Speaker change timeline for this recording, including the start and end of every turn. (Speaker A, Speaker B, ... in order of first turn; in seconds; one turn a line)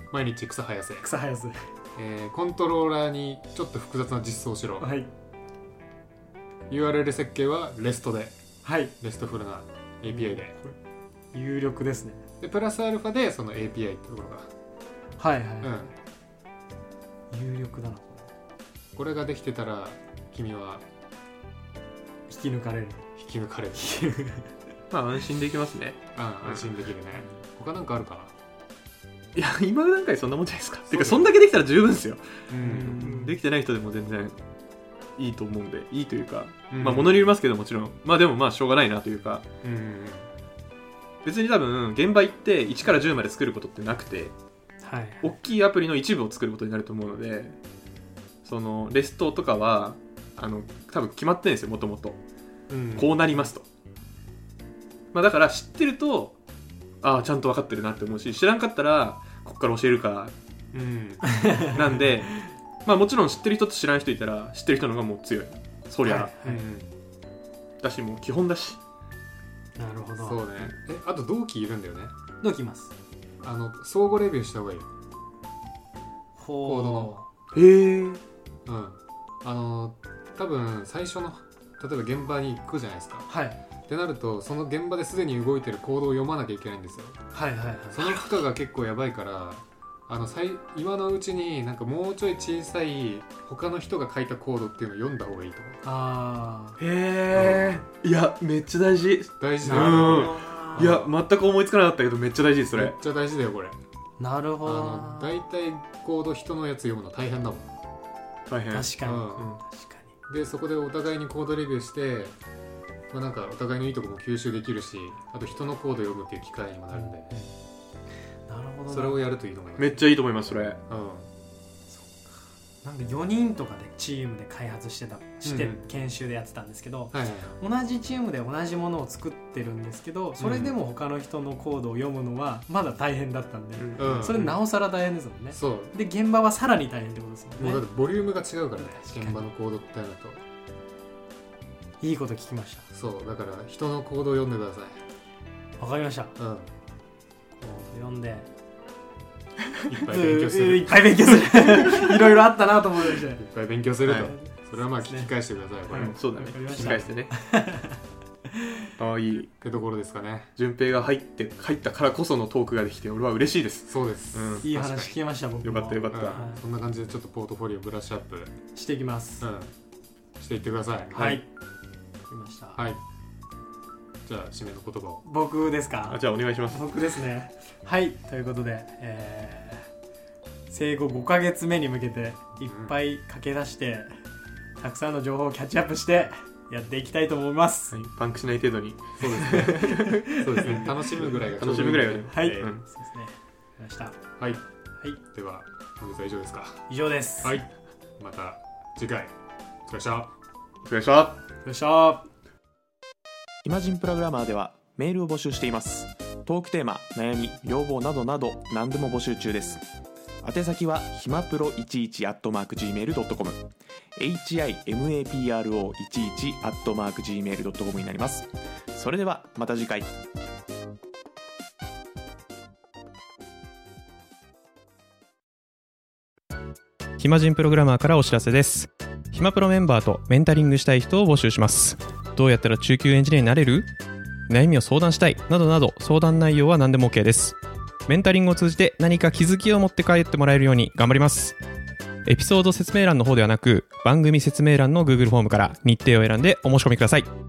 Speaker A: 0.1-1.1
Speaker B: 1.0-1.7
Speaker A: 1.9-4.9
Speaker B: 4.8-5.1
Speaker A: 6.7-8.4
Speaker B: 8.6-8.9
Speaker A: 9.0-10.6
Speaker B: 10.1-10.4
Speaker B: 11.3-12.3
Speaker A: 12.4-14.5
Speaker B: 15.2-15.9
Speaker A: 15.6-15.9
Speaker B: 17.3-18.3
Speaker A: 19.0-20.9
Speaker B: 22.3-23.1
Speaker A: 23.2-24.0
Speaker B: 23.8-24.5
Speaker C: 24.9-26.6
Speaker A: 26.1-28.3
Speaker C: 29.4-32.2
Speaker A: 30.9-31.3
Speaker A: 32.5-33.1
Speaker B: 32.6-33.4
Speaker C: 32.9-34.4
Speaker C: 35.2-39.5
Speaker A: 36.7-37.3
Speaker A: 39.6-40.3
Speaker C: 41.2-44.4
Speaker B: 44.8-45.3
Speaker C: 45.2-47.6
Speaker C: 48.4-52.2
Speaker A: 52.7-53.4
Speaker C: 53.0-53.6
Speaker C: 55.1-56.4
Speaker C: 57.0-60.3
Speaker A: 60.7-61.4
Speaker B: 61.3-61.8
Speaker C: 61.7-66.3
Speaker B: 66.0-66.6
Speaker A: 66.4-66.9
Speaker C: 67.8-68.8
Speaker B: 69.8-70.5
Speaker A: 70.2-72.1
Speaker B: 72.4-72.9
Speaker A: 73.4-74.9
Speaker B: 76.4-77.3
Speaker A: 76.6-77.1
Speaker C: 77.5-78.2
Speaker A: 78.7-83.3
Speaker B: 83.3-83.6
Speaker A: 83.9-87.2
Speaker B: 87.3-88.3
Speaker A: 87.9-95.8
Speaker B: 95.8-96.8
Speaker C: 96.8-103.0
Speaker A: 97.3-97.8
Speaker A: 99.4-101.1
Speaker B: 99.6-100.9
Speaker A: 102.7-103.8
Speaker B: 104.2-105.3
Speaker A: 104.6-107.7
Speaker C: 108.5-109.6
Speaker B: 108.7-110.1
Speaker A: 109.0-109.5
Speaker A: 110.3-112.3
Speaker A: 113.1-117.4
Speaker B: 116.9-117.5
Speaker B: 118.5-119.2
Speaker A: 118.9-120.0
Speaker C: 119.8-120.8
Speaker A: 120.9-121.3
Speaker B: 121.9-137.8
Speaker A: 125.4-125.8
Speaker A: 127.1-127.6
Speaker A: 130.4-130.8
Speaker C: 133.8-134.5
Speaker A: 134.0-134.6
Speaker A: 135.5-135.9
Speaker A: 137.6-140.4
Speaker B: 138.8-139.4
Speaker B: 142.0-142.9
Speaker A: 142.9-145.0
Speaker B: 145.8-146.4
Speaker A: 146.4-146.7
Speaker B: 147.6-148.5
Speaker A: 149.9-151.1
Speaker B: 150.0-153.4
Speaker A: 153.3-156.2
Speaker C: 154.1-154.3
Speaker B: 154.1-155.3
Speaker B: 155.9-158.9
Speaker C: 155.9-157.3
Speaker A: 156.7-157.1
Speaker C: 159.0-159.5
Speaker A: 159.6-160.5
Speaker C: 160.6-164.7
Speaker A: 163.9-165.2
Speaker B: 164.6-166.6
Speaker C: 165.6-166.4
Speaker A: 166.1-168.6
Speaker B: 168.8-169.5
Speaker A: 169.4-169.7
Speaker A: 170.4-171.4
Speaker B: 171.1-171.5
Speaker B: 172.3-172.8
Speaker A: 172.8-173.0
Speaker A: 174.2-175.2
Speaker B: 175.2-179.9
Speaker C: 176.1-176.9
Speaker B: 180.7-184.1
Speaker A: 182.7-182.9
Speaker B: 184.8-187.9
Speaker C: 187.9-192.8
Speaker A: 189.2-192.7
Speaker B: 189.5-191.0
Speaker B: 192.3-194.2
Speaker A: 195.2-196.8
Speaker B: 196.9-197.6
Speaker A: 197.4-199.3
Speaker A: 199.9-200.3
Speaker C: 200.8-201.4
Speaker B: 201.7-202.3
Speaker D: 203.6-209.8
Speaker D: 210.4-220.1
Speaker E: 227.2-233.9
Speaker E: 234.5-241.6
Speaker E: 242.3-247.3